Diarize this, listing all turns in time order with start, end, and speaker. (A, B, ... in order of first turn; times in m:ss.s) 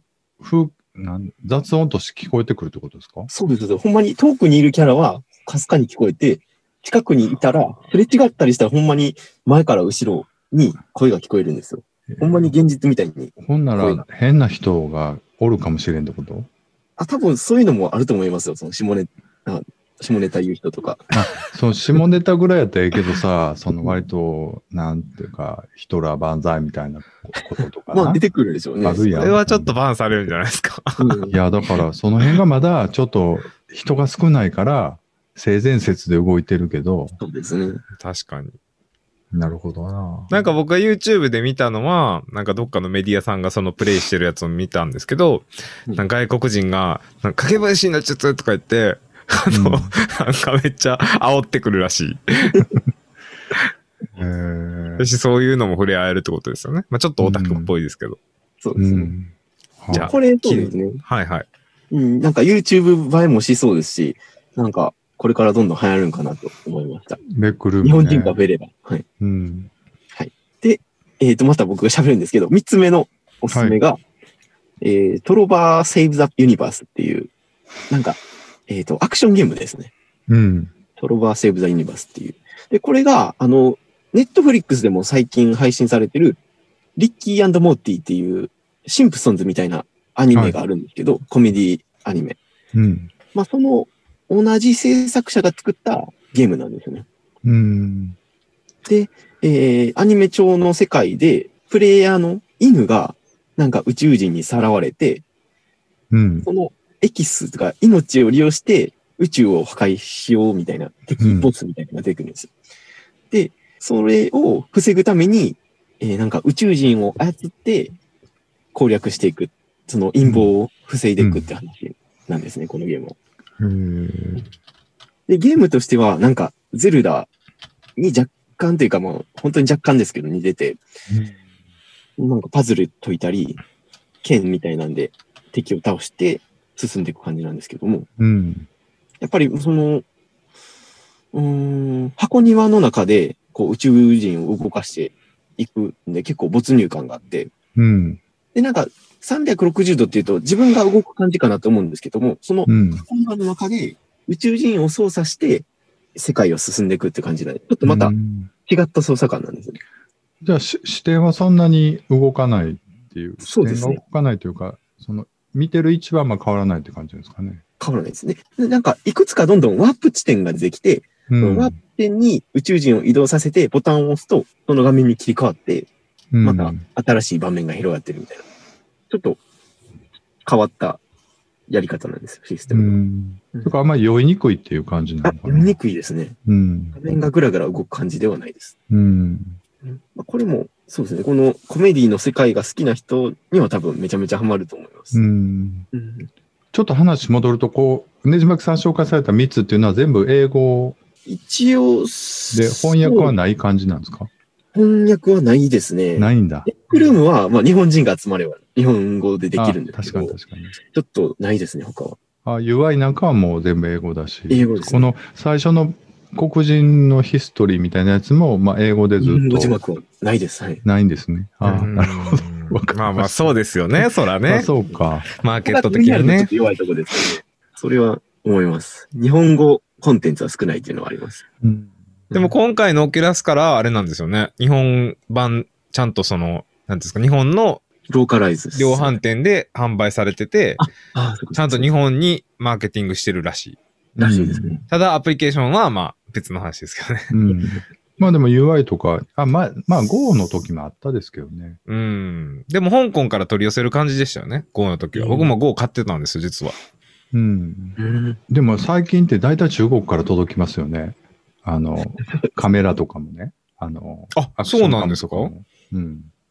0:00.4-0:03.3 A
0:03.3-0:14.0 B
0:12.1-0:12.5 A
0:13.4-0:16.5 A
0:17.0-0:21.1 B
0:21.1-0:28.2 A
0:27.9-0:29.1 B
0:28.8-0:29.7 A
0:29.1-0:31.2 C
0:31.0-0:31.4 B
0:31.3-0:37.2 A
0:37.2-0:37.8 B
0:38.0-0:38.6 C
0:39.3-0:40.3 A
0:40.3-0:52.6 C
0:49.5-0:49.9 A
0:54.2-0:55.0 A
0:55.0-0:58.2 C
0:57.2-0:57.7 A
0:58.6-0:59.1 B
0:58.8-1:00.1 A
0:59.9-1:01.0 B
0:59.9-1:01.5 C
1:01.9-1:07.2 B
1:07.3-1:08.4 A
1:07.8-1:09.0 B
1:09.2-1:09.7 A
1:10.2-1:14.0 B
1:13.5-1:13.8 A
1:14.8-1:17.3 B
1:17.9-1:19.9 B
1:20.3-1:20.7 A
1:21.0-1:26.4 B
1:27.0-1:32.4 B
1:32.7-1:33.1 A
1:33.3-1:37.1 B
1:37.4-1:38.2 A
1:38.8-1:45.2 B
1:46.1-1:46.5 A
1:46.4-1:52.5 B
1:51.2-1:51.5 A
1:53.3-1:57.9 B
1:58.7-2:03.2 B
2:00.2-2:00.5 A
2:01.2-2:01.5 A
2:03.6-2:04.4 A
2:05.3-2:07.3 B
2:08.0-2:10.8 B
2:11.1-2:11.4 A
2:12.2-2:13.6 B
2:14.2-2:18.1 B
2:18.2-2:18.7 A
2:19.2-2:20.0 B
2:21.3-2:27.5 B
2:27.8-2:28.2 A
2:28.6-2:38.1 B
2:32.7-2:33.0 A
2:37.8-2:38.5 A
2:38.7-2:39.8 B
2:40.4-2:47.6 A
2:43.4-2:44.0 B
2:47.8-2:55.9 B
2:51.3-2:51.8 A
2:56.3-2:56.8 A
2:56.4-2:58.4 B
2:59.1-2:59.4 B
3:00.4-3:01.0 B
3:01.7-3:03.0 B
3:02.7-3:05.8 A
3:05.2-3:06.4 B
3:06.5-3:07.0 A
3:06.9-3:08.8 B
3:08.9-3:09.6 A
3:09.8-3:15.2 B
3:15.1-3:15.9 A
3:15.9-3:16.3 B
3:16.7-3:21.0 A
3:21.3-3:23.4 B
3:22.5-3:24.3 A
3:24.7-3:32.2 B
3:26.2-3:26.7 A
3:29.6-3:30.8 A
3:32.4-3:39.8 A
3:34.5-3:35.2 B
3:39.2-3:40.8 B
3:40.8-3:45.3 A
3:41.7-3:44.7 C
3:45.4-3:46.5 C
3:45.6-3:51.4 B
3:51.6-3:51.9 A
3:52.3-3:52.6 B
3:52.3-3:57.8 C
3:58.1-3:59.2 B
3:58.8-4:00.8 C
4:00.8-4:01.9 B
4:01.6-4:03.8 C
4:04.2-4:04.8 A
4:04.2-4:04.8 B
4:04.9-4:07.4 C
4:07.3-4:11.8 A
4:11.9-4:16.8 C
4:15.1-4:15.6 B
4:17.3-4:18.0 A
4:18.0-4:18.4 B
4:18.5-4:26.3 A
4:22.2-4:22.6 B
4:24.4-4:25.5 C